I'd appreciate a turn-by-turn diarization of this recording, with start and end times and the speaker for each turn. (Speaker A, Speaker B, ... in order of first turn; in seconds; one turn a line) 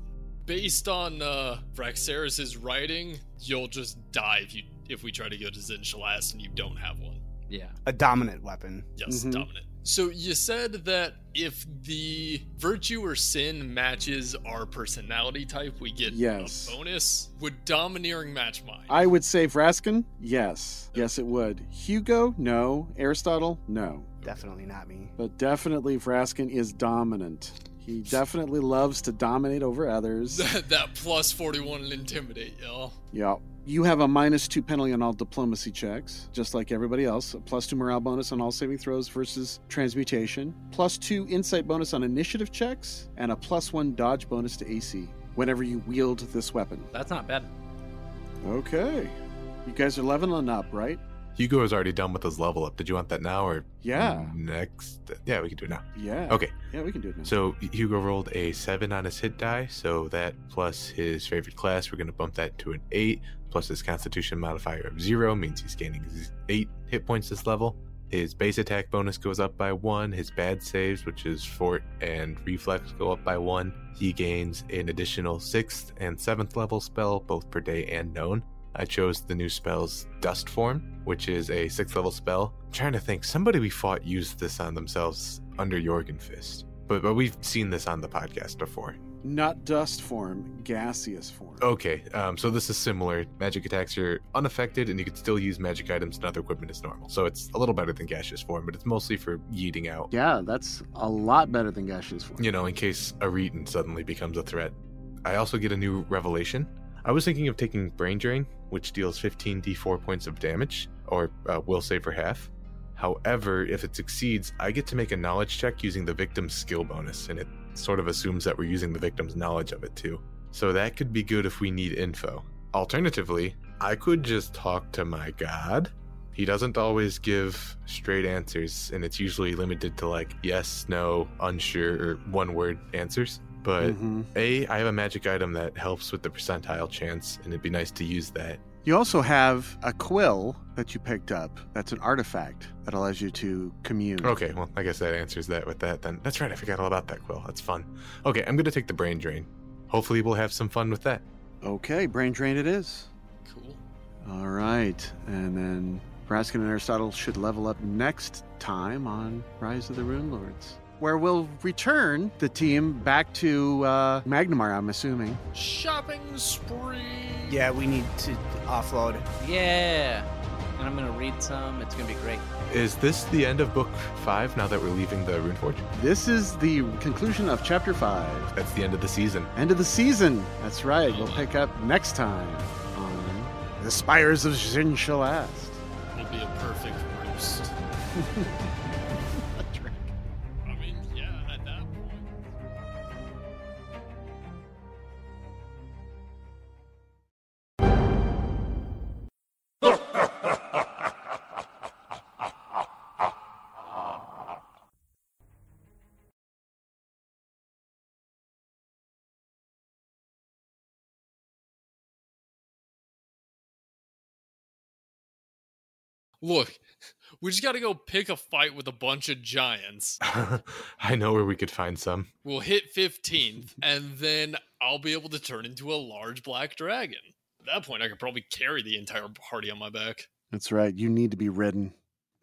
Speaker A: 0.4-7.2
Speaker B: 7.5-7.8
Speaker C: 7.9-8.9
Speaker A: 9.0-19.0
Speaker D: 9.1-9.5
Speaker D: 16.1-16.8
Speaker D: 18.9-24.1
Speaker A: 24.2-24.5
Speaker C: 24.2-25.1
Speaker D: 25.2-30.5
Speaker A: 30.3-33.0
Speaker D: 33.1-46.9
Speaker B: 46.9-47.5
Speaker D: 48.4-51.0
Speaker E: 51.4-56.5
Speaker D: 53.8-54.3
Speaker D: 55.9-57.3
Speaker E: 57.2-89.0
Speaker D: 89.2-91.7
Speaker E: 91.6-100.1
Speaker D: 100.1-102.5
Speaker E: 102.4-138.6
Speaker D: 133.8-134.3
Speaker D: 138.8-144.4
Speaker E: 144.2-151.2
Speaker D: 151.6-153.1
Speaker A: 153.4-153.8
Speaker D: 154.2-165.4
Speaker A: 165.5-167.7
Speaker C: 167.5-169.3
Speaker B: 169.4-172.4
Speaker E: 172.7-175.8
Speaker D: 175.9-178.5
Speaker E: 178.5-179.5
Speaker D: 179.6-185.8
Speaker A: 181.1-181.5
Speaker A: 186.1-187.7
Speaker D: 188.1-188.7
Speaker D: 189.4-190.1
Speaker A: 190.6-192.5
Speaker A: 216.4-216.8
Speaker A: 217.4-220.2
Speaker E: 220.2-222.3
Speaker A: 222.4-230.3
Speaker D: 230.5-231.9